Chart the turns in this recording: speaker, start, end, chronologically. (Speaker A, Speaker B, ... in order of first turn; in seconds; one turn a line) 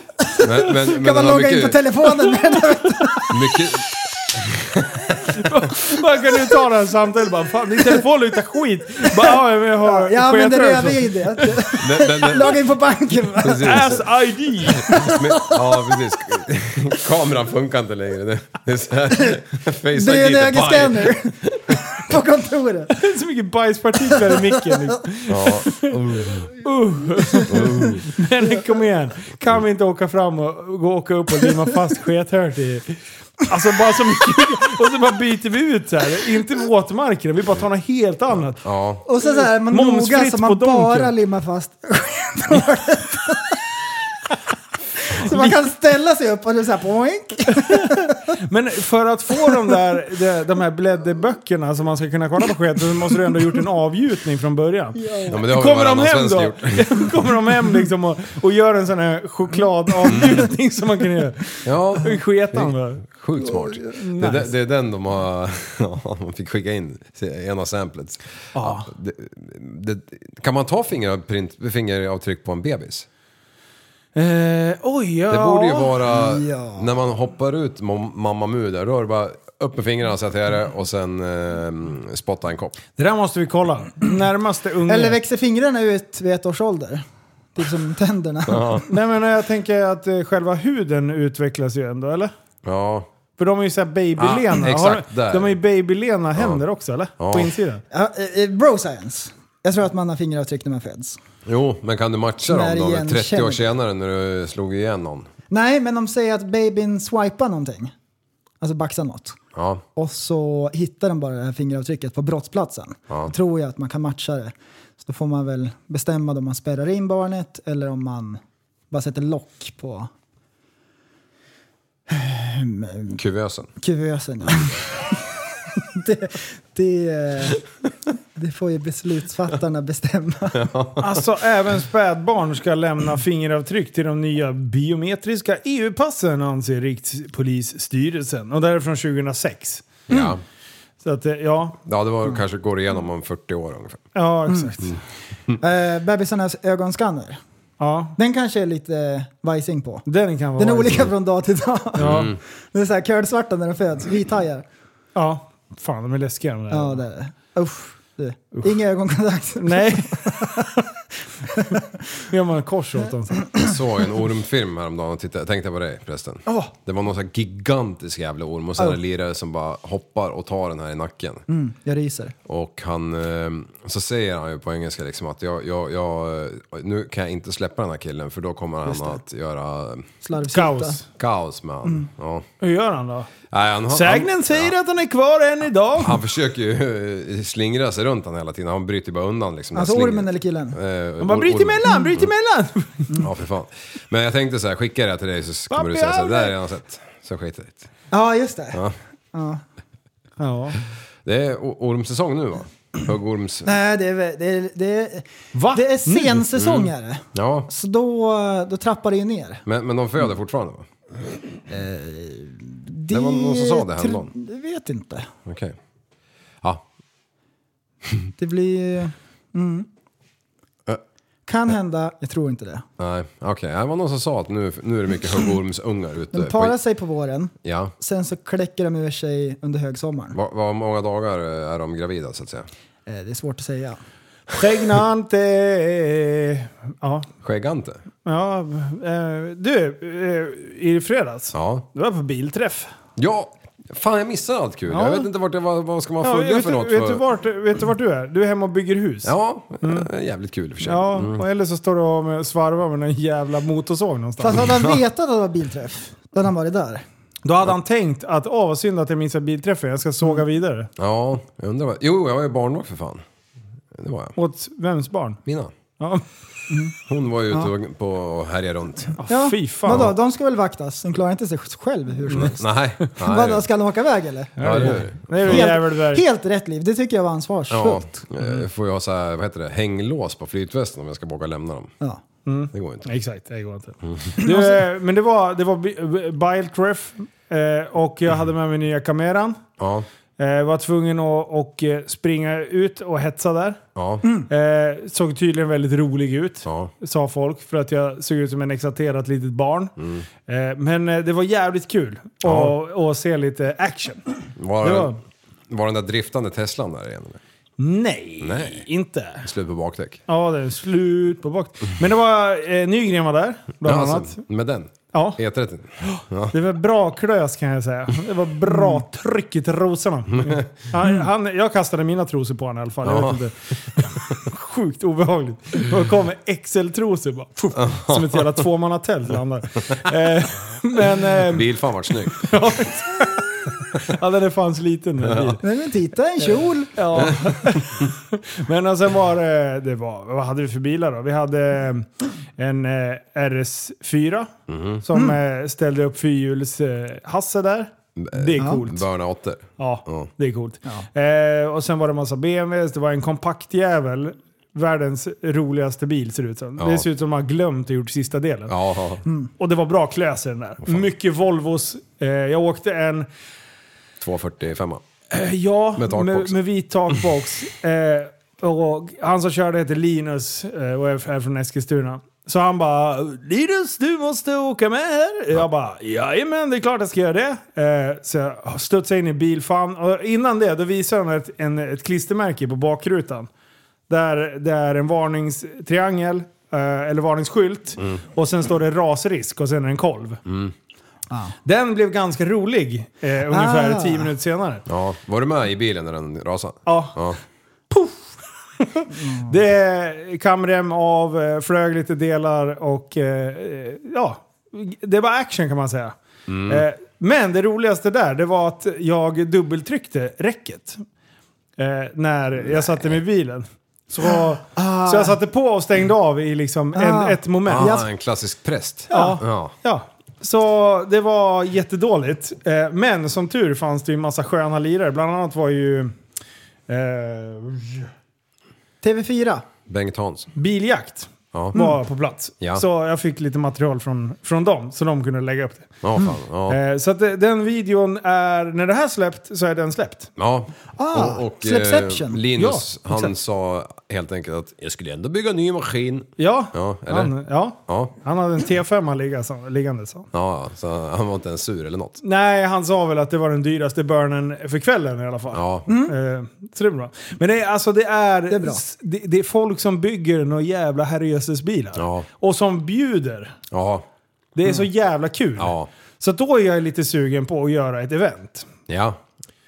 Speaker A: 0.2-3.3
Speaker B: 0.4-1.8
Speaker C: 2.2-3.2
Speaker B: 3.3-5.3
Speaker C: 5.4-11.8
Speaker A: 9.1-13.9
Speaker B: 11.8-12.6
Speaker B: 13.4-14.1
Speaker C: 13.6-15.1
Speaker B: 14.6-21.8
Speaker A: 14.9-16.0
Speaker A: 19.9-23.0
Speaker C: 22.9-26.0
Speaker B: 25.3-26.5
Speaker C: 26.6-38.6
Speaker B: 27.5-28.1
Speaker B: 38.6-39.0
Speaker A: 39.1-43.6
Speaker C: 39.2-41.1
Speaker A: 45.1-48.3
Speaker C: 45.1-45.5
Speaker C: 47.5-63.0
Speaker A: 55.0-55.4
Speaker B: 55.3-57.1
Speaker B: 60.1-60.5
Speaker B: 61.6-73.1
Speaker C: 63.9-64.5
Speaker C: 68.5-68.9
Speaker C: 74.1-76.0
Speaker B: 75.3-82.8
Speaker A: 76.1-76.9
Speaker C: 83.0-85.2
Speaker A: 84.9-87.0
Speaker A: 87.5-88.8
Speaker B: 88.5-88.8
Speaker C: 88.9-92.3
Speaker B: 92.6-93.1
Speaker C: 93.4-97.8
Speaker B: 94.2-95.6
Speaker B: 96.3-96.6
Speaker B: 97.2-97.5
Speaker A: 97.9-101.2
Speaker B: 101.5-105.3
Speaker A: 102.5-103.6
Speaker A: 105.5-107.9
Speaker A: 108.6-109.4
Speaker B: 109.5-109.8
Speaker A: 110.0-118.4
Speaker A: 118.9-120.1
Speaker A: 122.1-123.2
Speaker B: 123.1-123.7
Speaker A: 123.8-124.8
Speaker A: 125.9-127.6
Speaker A: 128.3-130.6
Speaker B: 130.5-131.2
Speaker C: 131.0-139.8
Speaker B: 140.1-140.4
Speaker C: 141.0-141.8
Speaker B: 141.8-144.1
Speaker C: 144.1-145.0
Speaker A: 145.6-147.4
Speaker C: 147.8-148.2
Speaker A: 148.2-150.1
Speaker C: 150.1-151.1
Speaker A: 150.6-154.6
Speaker C: 151.9-152.3
Speaker B: 152.0-152.4
Speaker C: 155.1-157.0
Speaker A: 156.7-160.7
Speaker C: 159.6-160.8
Speaker A: 161.5-161.8
Speaker C: 162.3-163.5
Speaker B: 163.6-171.4
Speaker A: 171.5-172.3
Speaker B: 172.5-180.1
Speaker A: 178.8-179.2
Speaker A: 180.2-181.0
Speaker C: 180.5-181.0
Speaker B: 181.2-182.4
Speaker C: 182.6-183.3
Speaker B: 183.5-184.7
Speaker C: 183.9-186.2
Speaker B: 186.0-192.3
Speaker A: 189.7-190.8
Speaker C: 191.2-193.2
Speaker B: 193.2-197.9
Speaker C: 195.7-196.5
Speaker A: 198.1-198.8
Speaker A: 199.3-199.6
Speaker C: 200.4-200.8
Speaker B: 201.2-203.7
Speaker A: 203.6-209.6
Speaker C: 205.5-206.6
Speaker B: 206.6-207.7
Speaker B: 209.7-210.9
Speaker A: 211.7-215.3
Speaker B: 213.1-214.3
Speaker B: 215.4-215.8
Speaker A: 218.4-219.9
Speaker A: 221.5-222.8
Speaker B: 223.0-226.8
Speaker A: 226.3-230.4
Speaker B: 227.6-227.9
Speaker B: 230.3-232.7
Speaker A: 233.1-234.0
Speaker C: 234.6-237.3
Speaker B: 237.4-238.0
Speaker C: 238.2-242.9
Speaker B: 241.5-241.8
Speaker B: 243.2-247.2
Speaker C: 244.9-245.3
Speaker C: 246.2-250.1
Speaker B: 249.2-251.4
Speaker C: 250.8-254.7
Speaker A: 254.4-257.0
Speaker B: 254.6-255.0
Speaker C: 257.4-260.9
Speaker B: 261.0-263.2
Speaker B: 263.9-264.4
Speaker C: 264.4-265.4
Speaker B: 265.4-265.7
Speaker C: 266.0-266.2
Speaker B: 267.1-269.2
Speaker C: 269.2-270.1
Speaker A: 269.3-278.2
Speaker B: 272.3-273.6
Speaker C: 274.6-276.2
Speaker B: 274.6-275.7
Speaker B: 277.7-281.9
Speaker C: 282.4-289.6
Speaker B: 282.7-283.1
Speaker B: 284.0-284.4
Speaker B: 289.8-290.1
Speaker C: 290.4-293.8
Speaker B: 293.9-294.2
Speaker C: 294.5-299.9
Speaker B: 296.6-296.9
Speaker B: 300.0-300.2
Speaker C: 300.5-305.2
Speaker B: 302.4-302.8
Speaker B: 304.6-305.1
Speaker B: 305.7-307.4
Speaker C: 307.8-309.4
Speaker B: 308.4-308.8
Speaker B: 309.4-310.2
Speaker C: 310.3-314.4
Speaker B: 313.8-316.5
Speaker C: 315.1-315.4
Speaker C: 316.1-335.6
Speaker B: 323.0-323.4
Speaker B: 327.8-328.6
Speaker B: 331.2-332.5
Speaker B: 335.2-335.6
Speaker A: 335.6-336.9
Speaker C: 336.9-344.5
Speaker B: 337.1-338.0
Speaker B: 344.7-345.0
Speaker C: 345.0-349.0
Speaker B: 348.1-350.3
Speaker C: 349.8-358.7
Speaker B: 356.8-357.1
Speaker B: 358.7-359.2
Speaker C: 359.6-363.3
Speaker B: 364.2-365.0
Speaker C: 365.3-383.5
Speaker B: 365.9-366.5
Speaker C: 384.1-390.4
Speaker B: 390.4-390.7
Speaker C: 391.6-394.9
Speaker A: 393.5-394.3
Speaker B: 394.9-397.4
Speaker C: 396.9-397.2
Speaker C: 397.9-406.1
Speaker A: 399.2-399.5
Speaker B: 406.5-406.8
Speaker C: 406.7-411.0
Speaker C: 411.8-418.0
Speaker A: 414.7-415.4
Speaker A: 416.9-418.0
Speaker B: 417.6-419.7
Speaker C: 419.1-426.1
Speaker C: 426.9-428.1
Speaker A: 429.0-429.6
Speaker B: 429.9-430.5
Speaker C: 430.6-436.0
Speaker B: 436.0-436.8
Speaker C: 436.7-440.3
Speaker B: 440.4-447.3
Speaker A: 441.0-442.4
Speaker C: 442.6-443.3
Speaker C: 446.4-450.3
Speaker B: 447.9-448.1
Speaker B: 450.3-452.2
Speaker C: 452.2-463.6
Speaker B: 455.5-455.9
Speaker A: 455.9-456.1
Speaker A: 458.5-458.8
Speaker B: 461.9-462.2
Speaker B: 463.7-464.1
Speaker C: 464.5-468.7
Speaker B: 465.6-465.9
Speaker B: 468.9-469.2